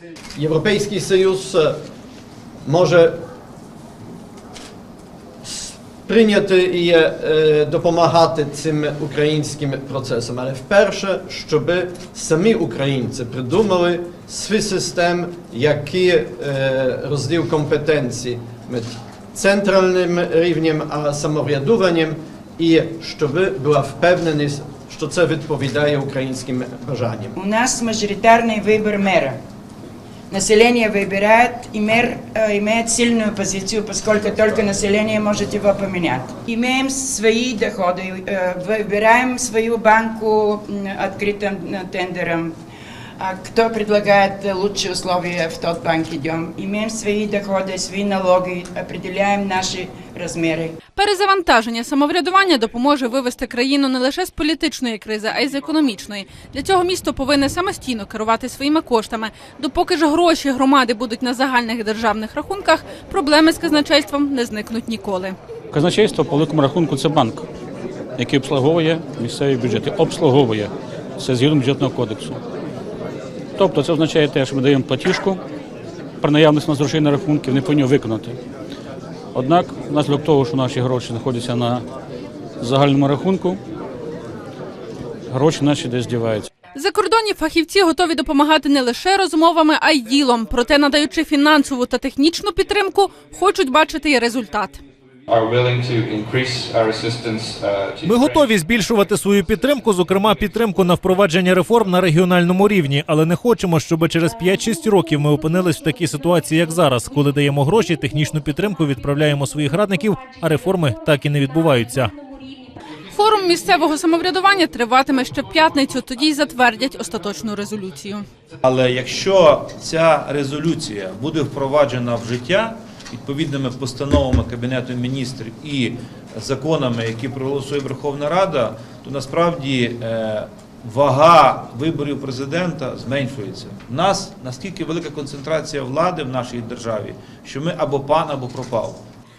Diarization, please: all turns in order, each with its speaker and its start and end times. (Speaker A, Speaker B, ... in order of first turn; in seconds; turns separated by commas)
Speaker A: 0.3-1.8, Speaker A: 2.6-3.2, Speaker A: 5.4-27.3, Speaker B: 27.3-29.4, Speaker B: 30.3-42.5, Speaker B: 43.2-50.7, Speaker C: 51.0-65.3, Speaker D: 65.7-67.4, Speaker D: 68.2-72.4, Speaker D: 73.5-75.4, Speaker D: 76.2-78.4, Speaker D: 79.3-81.8, Speaker D: 82.6-83.6, Speaker D: 85.3-86.5, Speaker C: 86.7-94.8, Speaker E: 95.3-98.5, Speaker F: 98.0-112.1, Speaker C: 113.1-118.2, Speaker G: 118.6-139.0